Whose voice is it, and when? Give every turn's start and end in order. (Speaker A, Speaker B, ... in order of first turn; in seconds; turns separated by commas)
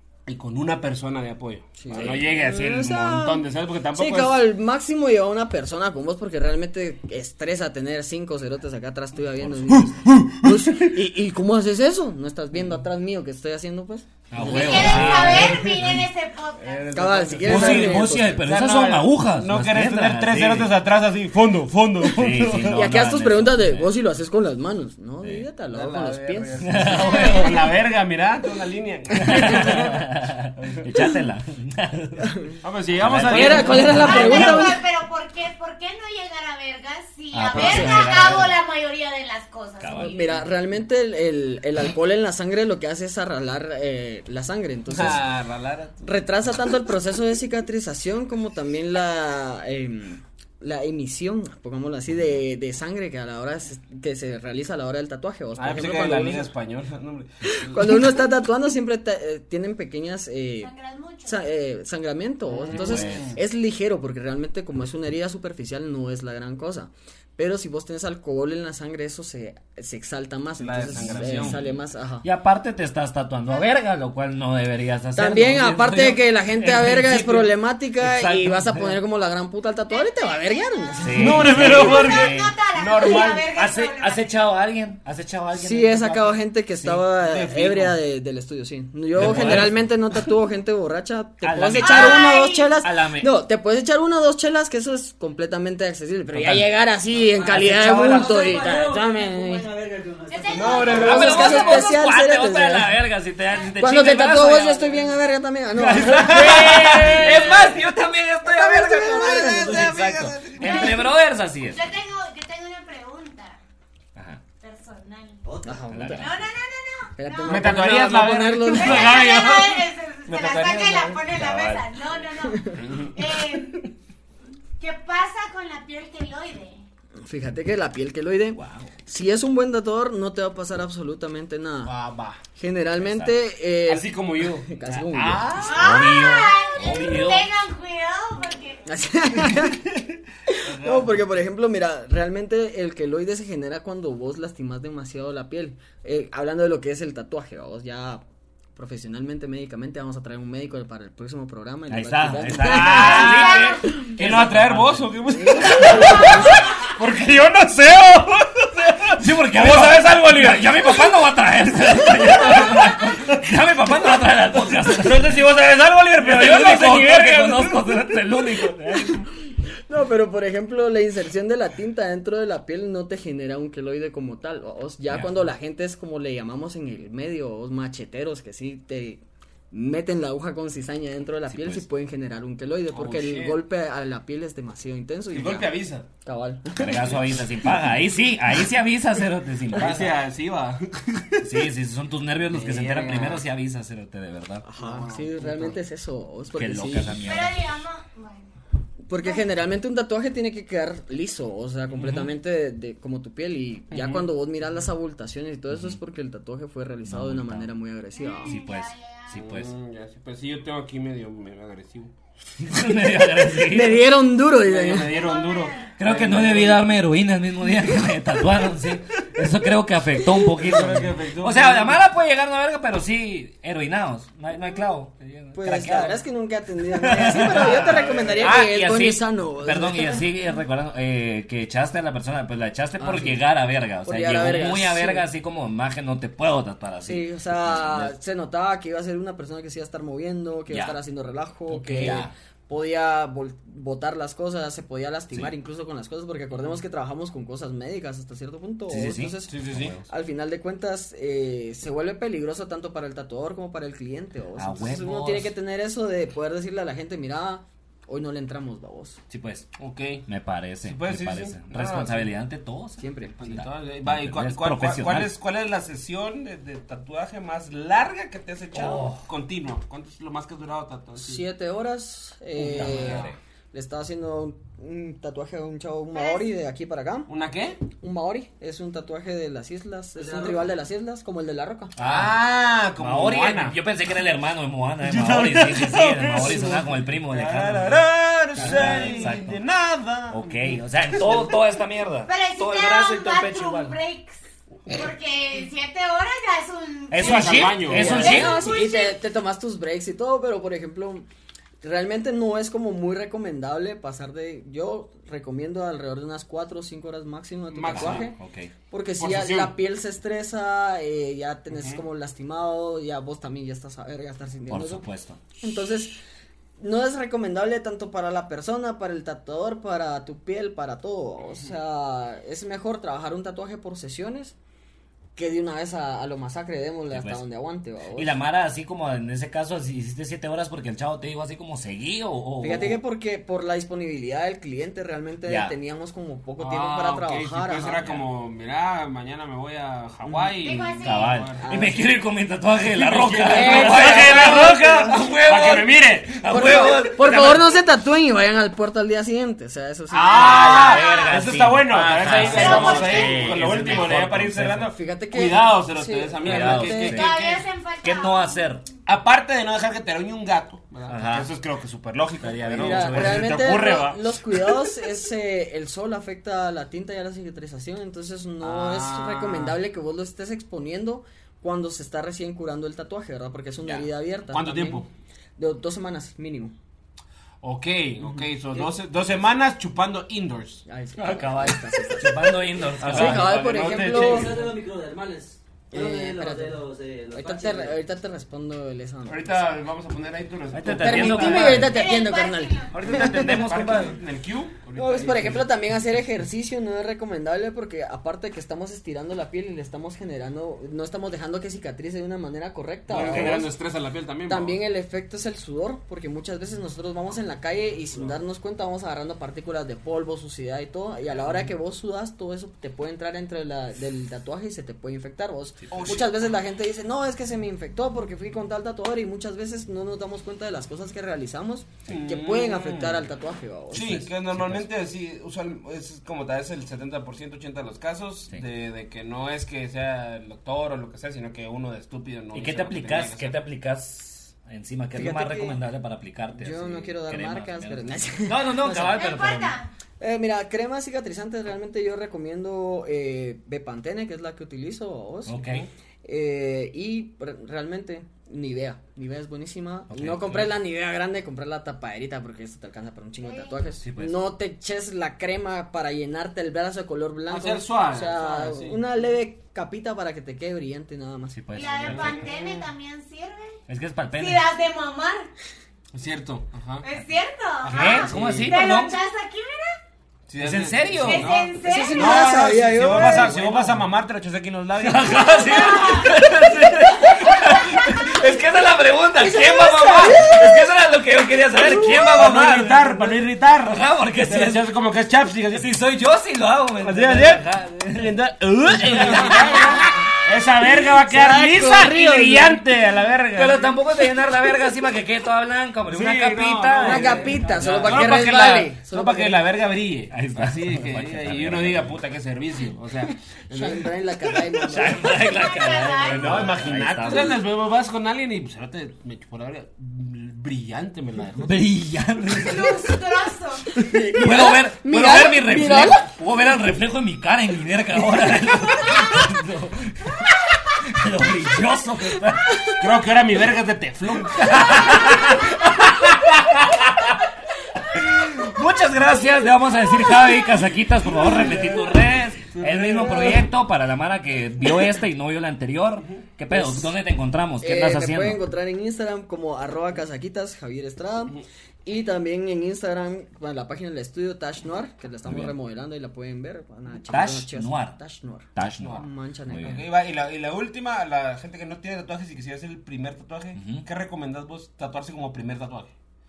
Speaker A: 0.2-4.4, Speaker B: 1.8-15.2, Speaker C: 1.9-2.2, Speaker A: 9.7-10.9, Speaker C: 14.3-15.8, Speaker A: 14.4-22.8, Speaker D: 14.4-17.0, Speaker B: 16.9-18.4, Speaker C: 17.4-20.7, Speaker C: 22.0-23.9, Speaker B: 22.7-27.2, Speaker A: 25.7-30.0, Speaker C: 26.6-27.6, Speaker D: 26.9-27.6, Speaker C: 29.2-34.7, Speaker B: 29.2-29.9, Speaker A: 30.6-30.9, Speaker A: 32.6-34.5, Speaker B: 33.2-34.8, Speaker D: 33.9-40.4, Speaker C: 37.3-38.5, Speaker B: 37.6-38.0, Speaker C: 39.8-40.4, Speaker B: 39.9-45.2, Speaker A: 44.9-46.0, Speaker B: 46.0-56.5, Speaker A: 55.5-58.0, Speaker B: 57.5-60.7, Speaker D: 60.6-61.4, Speaker B: 61.2-72.2, Speaker A: 62.5-63.4, Speaker C: 62.6-63.3, Speaker A: 70.6-71.6, Speaker C: 70.9-79.0, Speaker B: 75.1-81.9, Speaker D: 79.9-84.2, Speaker C: 81.0-82.5, Speaker A: 81.1-83.5, Speaker C: 83.5-87.0, Speaker B: 85.5-99.7, Speaker A: 87.1-88.0, Speaker A: 89.1-89.8, Speaker C: 89.1-89.8, Speaker C: 91.4-93.3, Speaker D: 91.8-92.8, Speaker C: 96.3-96.7, Speaker E: 97.3-101.3, Speaker C: 97.4-98.6, Speaker D: 100.3-101.9, Speaker A: 100.5-101.3, Speaker B: 100.8-102.9, Speaker C: 100.8-105.1, Speaker B: 103.8-107.6, Speaker C: 105.7-111.8, Speaker A: 106.1-107.5, Speaker B: 108.4-110.8, Speaker A: 109.4-110.8, Speaker D: 110.6-111.1, Speaker D: 111.7-113.6, Speaker C: 114.2-114.4, Speaker D: 114.6-115.4, Speaker E: 115.4-115.8, Speaker B: 115.6-116.3, Speaker C: 115.9-116.4, Speaker D: 116.1-117.7, Speaker B: 117.2-119.2, Speaker A: 117.5-121.2, Speaker D: 118.7-123.9, Speaker C: 121.3-122.2, Speaker B: 122.5-122.8, Speaker A: 122.8-123.3, Speaker D: 124.8-126.8, Speaker B: 127.2-131.9, Speaker C: 128.5-128.9, Speaker A: 131.8-132.4, Speaker B: 132.5-135.6, Speaker C: 133.0-133.3, Speaker A: 133.9-135.9, Speaker C: 135.6-137.5, Speaker D: 135.6-138.9, Speaker B: 138.8-139.9, Speaker A: 139.6-141.2, Speaker B: 140.5-148.2, Speaker B: 148.7-154.1, Speaker C: 151.9-156.1, Speaker A: 152.5-160.9, Speaker D: 153.0-153.9, Speaker B: 155.3-156.7, Speaker C: 159.1-165.4, Speaker A: 165.0-168.0, Speaker C: 166.2-169.3, Speaker B: 169.9-185.7, Speaker C: 175.1-175.3, Speaker C: 181.5-181.8, Speaker A: 182.9-183.6, Speaker A: 185.3-186.1, Speaker B: 186.2-187.3, Speaker C: 186.8-190.1, Speaker A: 189.7-191.6, Speaker C: 191.4-194.6, Speaker B: 192.5-193.4, Speaker B: 194.6-197.2, Speaker A: 194.8-195.8, Speaker C: 196.5-197.7, Speaker D: 197.2-198.5, Speaker B: 199.1-208.6, Speaker C: 202.0-202.3, Speaker A: 203.9-204.3, Speaker C: 205.7-206.0, Speaker C: 207.1-207.7, Speaker D: 208.1-209.3, Speaker C: 208.4-209.7, Speaker A: 209.3-212.1, Speaker C: 212.6-214.1, Speaker B: 213.6-215.2, Speaker A: 214.6-216.9, Speaker D: 215.1-215.9, Speaker C: 216.0-226.2, Speaker A: 220.5-222.0, Speaker B: 225.5-230.2, Speaker C: 226.9-238.1, Speaker A: 227.2-228.6, Speaker B: 233.0-233.4, Speaker B: 234.0-235.2, Speaker B: 237.0-259.2, Speaker C: 240.7-240.9, Speaker C: 241.7-242.3, Speaker A: 241.8-242.3, Speaker C: 248.9-250.1, Speaker A: 249.5-249.9, Speaker C: 254.6-255.5, Speaker C: 259.3-259.7, Speaker A: 259.8-260.2, Speaker C: 260.2-265.3, Speaker A: 260.8-262.3, Speaker B: 263.0-263.6, Speaker A: 263.4-271.4, Speaker C: 268.7-269.2, Speaker B: 271.1-277.3, Speaker A: 272.6-273.3, Speaker C: 272.7-273.4, Speaker D: 276.1-276.5, Speaker A: 277.3-277.8, Speaker B: 277.9-281.9, Speaker C: 282.0-282.4, Speaker A: 282.0-283.8, Speaker C: 283.0-289.6, Speaker A: 285.0-291.5, Speaker B: 288.6-289.2, Speaker C: 290.3-293.9, Speaker D: 292.2-299.2, Speaker C: 297.1-298.6, Speaker A: 297.2-298.3, Speaker B: 297.9-301.2, Speaker B: 301.8-308.4, Speaker A: 307.7-308.3, Speaker C: 307.9-308.7, Speaker B: 308.9-315.1, Speaker A: 309.2-309.7, Speaker A: 311.7-312.0, Speaker C: 314.7-315.4, Speaker B: 315.6-316.2, Speaker B: 316.8-324.5, Speaker B: 325.4-328.3, Speaker C: 327.1-327.4, Speaker C: 328.1-333.0, Speaker B: 332.6-338.0, Speaker C: 335.4-335.7, Speaker A: 336.6-341.6, Speaker C: 338.0-338.2, Speaker B: 340.2-340.8, Speaker D: 340.6-341.4, Speaker C: 341.0-347.7, Speaker B: 341.6-342.0, Speaker A: 342.9-346.4, Speaker B: 343.5-345.1, Speaker B: 346.5-350.8, Speaker D: 350.1-351.4, Speaker A: 350.1-357.6, Speaker C: 350.4-354.9, Speaker D: 352.3-354.0, Speaker B: 354.9-357.2, Speaker C: 356.4-357.3, Speaker D: 357.0-358.7, Speaker C: 358.0-358.8, Speaker A: 359.1-364.7, Speaker C: 361.1-361.5, Speaker C: 362.4-363.6, Speaker B: 362.8-375.0, Speaker A: 368.6-369.8, Speaker A: 374.5-375.1, Speaker B: 375.6-376.7, Speaker A: 377.6-380.8, Speaker B: 378.4-378.9, Speaker B: 380.9-384.6, Speaker C: 381.2-383.6, Speaker A: 383.0-384.7, Speaker E: 384.0-387.9, Speaker B: 385.9-389.7, Speaker A: 389.2-391.9, Speaker C: 390.7-392.1, Speaker B: 391.0-393.5, Speaker D: 391.8-393.2, Speaker C: 392.9-394.2, Speaker A: 393.4-395.7, Speaker B: 394.9-403.8, Speaker A: 403.1-404.8, Speaker C: 403.1-403.6, Speaker B: 404.5-424.3, Speaker C: 415.9-416.1, Speaker A: 415.9-416.3, Speaker A: 422.1-423.3, Speaker A: 423.9-433.5, Speaker C: 424.5-424.8, Speaker C: 432.5-439.8, Speaker B: 435.1-435.8, Speaker B: 436.5-439.2, Speaker D: 439.1-439.9, Speaker B: 440.2-445.6, Speaker C: 445.5-445.9, Speaker A: 445.6-445.9, Speaker B: 446.2-461.6, Speaker C: 450.1-450.8, Speaker D: 453.4-453.8, Speaker C: 454.0-454.4, Speaker A: 457.5-459.0, Speaker C: 461.5-462.4, Speaker D: 461.7-463.8, Speaker A: 462.0-462.9, Speaker C: 463.9-464.6, Speaker D: 464.3-465.5, Speaker A: 466.1-467.1, Speaker D: 467.0-470.0, Speaker C: 467.8-469.2, Speaker A: 467.9-468.8, Speaker A: 470.5-476.0, Speaker C: 470.6-471.6, Speaker D: 471.2-472.7, Speaker B: 471.8-473.9, Speaker C: 475.0-484.9, Speaker D: 475.4-476.4, Speaker D: 477.7-478.1, Speaker D: 479.6-480.3, Speaker B: 480.1-480.7, Speaker B: 481.8-482.3, Speaker A: 482.1-485.9, Speaker C: 485.7-488.3, Speaker A: 487.0-494.0, Speaker C: 488.9-490.0, Speaker B: 489.6-490.0, Speaker B: 491.2-492.8, Speaker C: 493.6-498.2, Speaker A: 496.1-504.1, Speaker B: 497.0-499.6, Speaker C: 500.3-502.2, Speaker B: 503.7-505.3, Speaker C: 504.9-507.6, Speaker D: 505.3-506.9, Speaker A: 506.2-511.7, Speaker C: 511.6-513.1, Speaker D: 512.5-513.9, Speaker B: 514.0-516.3, Speaker C: 514.4-522.9, Speaker A: 523.0-525.6, Speaker C: 524.5-526.1, Speaker A: 526.2-526.8, Speaker C: 528.1-538.6, Speaker A: 531.4-533.7, Speaker B: 536.7-537.1, Speaker B: 537.8-550.0, Speaker C: 545.5-545.7, Speaker C: 547.2-548.2, Speaker C: 548.7-550.0, Speaker A: 549.0-549.2, Speaker A: 549.8-556.1, Speaker C: 553.8-554.0